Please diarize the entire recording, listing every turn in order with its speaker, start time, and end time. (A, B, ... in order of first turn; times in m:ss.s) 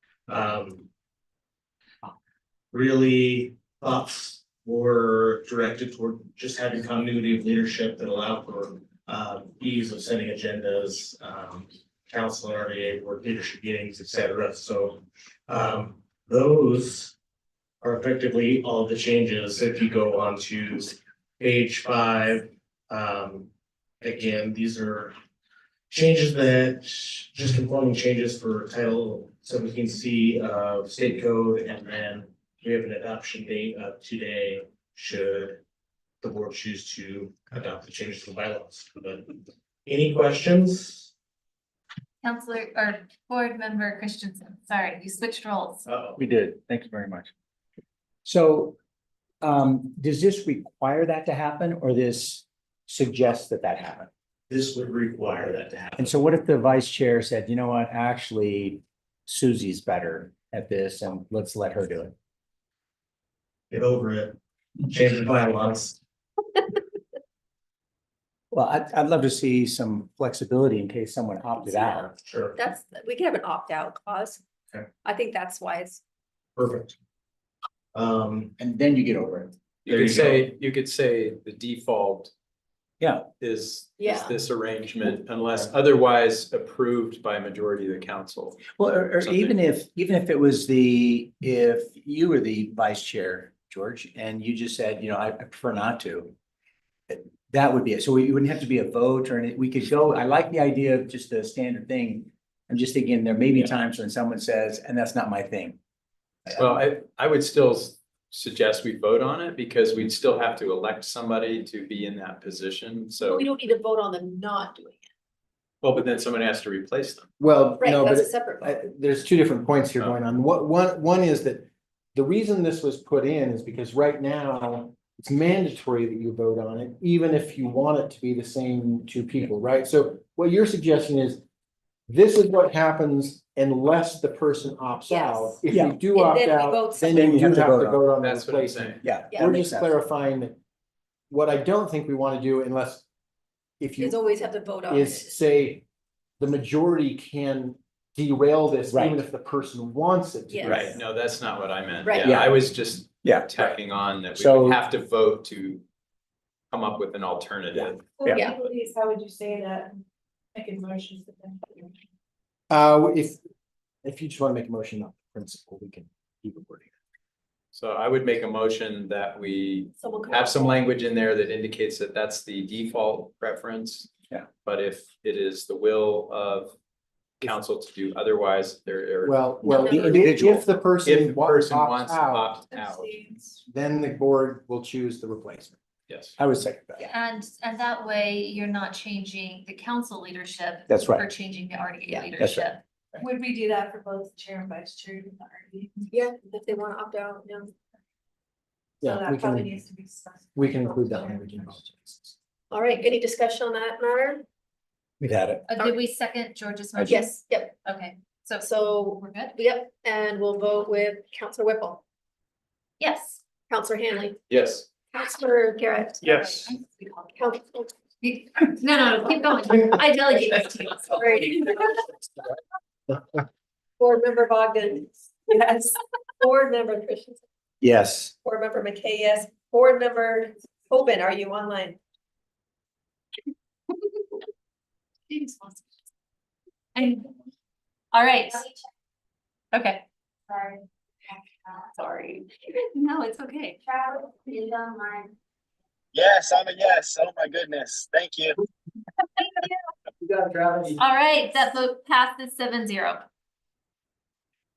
0:00.3-0:00.9 A
0:02.7-0:17.2 A
0:17.8-0:23.5 A
0:24.0-0:25.1 A
0:25.9-0:35.6 A
0:36.2-0:41.1 A
0:42.2-0:45.8 B
0:45.9-0:46.2 A
0:46.2-0:47.3 C
0:48.2-0:48.8 C
0:49.4-0:54.1 C
0:54.5-0:56.2 A
0:56.0-1:02.1 C
1:03.7-1:06.0 A
1:08.5-1:12.1 C
1:11.6-1:14.4 D
1:12.2-1:12.6 A
1:15.0-1:16.0 D
1:16.6-1:17.0 A
1:17.9-1:18.5 A
1:18.6-1:19.6 C
1:19.8-1:22.3 E
1:19.9-1:20.5 A
1:23.0-1:23.3 C
1:23.4-1:29.6 E
1:24.0-1:24.4 D
1:28.7-1:36.3 C
1:37.1-1:45.8 C
1:46.5-1:53.5 E
1:53.2-1:55.1 D
1:55.8-1:57.3 E
1:57.4-2:11.4 F
1:57.8-1:58.8 D
2:12.1-2:20.6 F
2:15.1-2:15.6 D
2:15.7-2:16.0 C
2:16.1-2:17.6 D
2:17.1-2:18.1 C
2:18.2-2:19.1 E
2:19.0-2:20.0 C
2:19.3-2:19.7 D
2:21.3-2:23.0 F
2:23.8-2:24.2 F
2:24.0-2:25.3 D
2:24.9-2:25.8 F
2:26.4-2:31.0 F
2:28.9-2:29.2 C
2:30.5-2:31.0 D
2:30.6-2:35.8 E
2:32.0-2:32.5 D
2:32.2-2:32.5 C
2:33.2-2:33.8 C
2:34.4-2:34.8 C
2:36.7-2:38.0 E
2:37.7-2:38.5 C
2:38.2-2:40.0 G
2:38.3-2:38.6 D
2:40.6-2:41.9 G
2:42.7-2:43.4 F
2:44.0-2:46.9 F
2:47.7-2:56.8 E
2:50.0-2:50.7 D
2:57.4-3:03.4 E
2:59.2-3:02.6 F
2:59.6-3:00.2 D
2:59.9-3:00.5 C
3:02.7-3:03.5 G
3:03.7-3:05.8 F
3:06.1-3:06.4 E
3:06.4-3:07.1 C
3:07.0-3:12.8 B
3:10.9-3:11.3 C
3:12.1-3:12.7 C
3:13.2-3:16.1 G
3:16.1-3:17.7 D
3:19.0-3:19.8 F
3:19.0-3:21.5 G
3:20.6-3:22.4 F
3:22.7-3:24.4 D
3:25.2-3:25.7 C
3:25.7-3:29.6 B
3:27.0-3:27.8 D
3:28.6-3:32.0 D
3:33.0-3:33.4 B
3:33.7-3:34.4 D
3:34.5-3:34.9 E
3:35.1-3:36.2 D
3:36.2-3:36.7 E
3:36.2-3:37.4 B
3:37.4-3:37.9 D
3:38.2-3:41.9 B
3:41.2-3:41.8 D
3:44.0-3:47.4 D
3:47.8-3:48.3 C
3:48.4-3:52.0 D
3:55.3-3:55.8 B
3:57.0-3:57.3 B
3:58.1-3:58.7 B
3:59.7-4:00.8 B
4:01.7-4:05.3 B
4:06.1-4:08.6 H
4:09.4-4:09.7 B
4:10.2-4:10.8 F
4:11.0-4:13.3 B